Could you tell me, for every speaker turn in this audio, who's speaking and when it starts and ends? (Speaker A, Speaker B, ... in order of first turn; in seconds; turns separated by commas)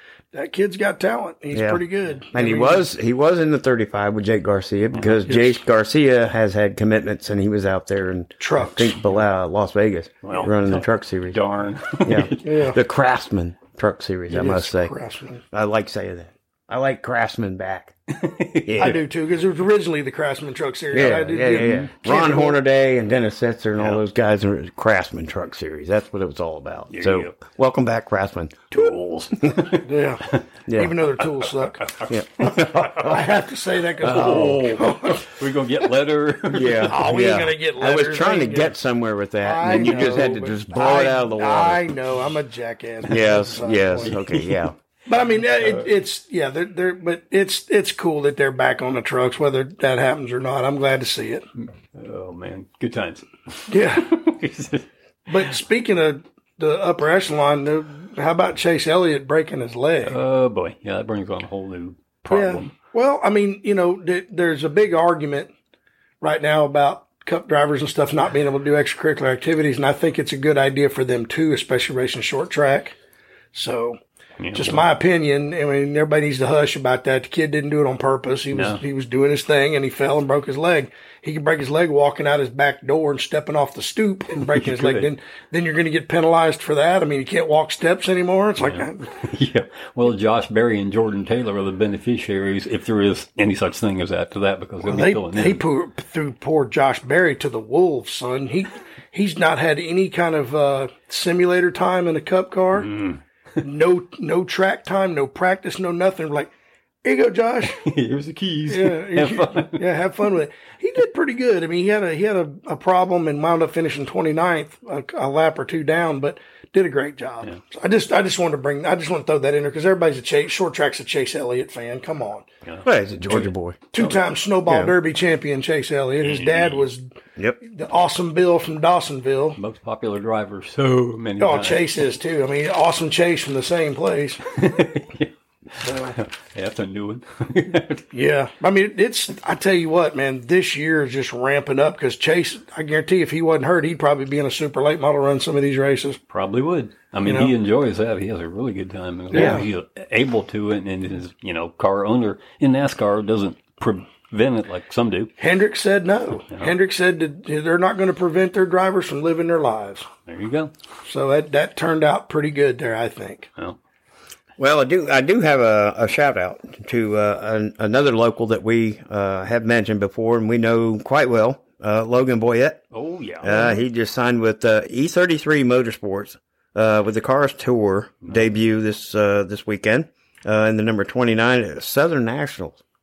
Speaker A: 0.3-2.9, Speaker B: 1.5-1.8, Speaker B: 2.3-11.4, Speaker C: 4.9-5.2, Speaker A: 5.3-5.6, Speaker A: 8.4-8.9, Speaker C: 10.2-12.6, Speaker B: 12.1-14.9, Speaker A: 12.4-12.8, Speaker A: 14.3-15.4, Speaker B: 15.5-17.9, Speaker C: 18.1-19.0, Speaker B: 18.7-19.0, Speaker A: 18.8-22.6, Speaker B: 20.9-29.7, Speaker C: 21.5-21.9, Speaker C: 26.9-27.4, Speaker C: 28.7-30.4, Speaker A: 29.8-31.9, Speaker B: 30.7-30.9, Speaker C: 31.8-33.2, Speaker B: 32.1-33.2, Speaker A: 32.5-35.3, Speaker B: 34.0-34.8, Speaker C: 34.0-37.0, Speaker B: 36.5-41.8, Speaker A: 36.9-38.7, Speaker A: 39.4-44.1, Speaker C: 39.6-40.4, Speaker B: 43.1-44.7, Speaker C: 44.0-44.7, Speaker A: 45.1-51.5, Speaker C: 51.6-54.9, Speaker A: 53.7-54.2, Speaker A: 55.3-60.2, Speaker C: 60.0-62.7, Speaker A: 62.3-65.5, Speaker A: 66.2-73.0, Speaker A: 73.5-74.0, Speaker C: 74.4-74.8, Speaker A: 74.5-89.1, Speaker C: 78.5-78.8, Speaker C: 84.4-85.1, Speaker C: 88.6-95.6, Speaker A: 94.8-102.9, Speaker C: 102.8-103.2, Speaker A: 103.6-106.5, Speaker A: 107.0-107.8, Speaker C: 107.7-109.8, Speaker A: 108.7-122.5, Speaker B: 122.8-123.9, Speaker A: 123.9-129.6, Speaker B: 124.7-124.9, Speaker C: 126.2-126.9, Speaker C: 129.6-131.9, Speaker A: 131.4-134.4, Speaker C: 134.5-138.1, Speaker A: 135.8-136.2, Speaker A: 138.1-146.2, Speaker C: 146.3-155.3, Speaker A: 147.2-147.5, Speaker B: 149.3-149.7, Speaker A: 149.3-149.7, Speaker A: 155.4-160.1, Speaker C: 160.3-160.7, Speaker A: 161.1-163.5, Speaker B: 164.6-172.8, Speaker C: 172.9-173.5, Speaker B: 173.4-182.8, Speaker A: 173.5-173.7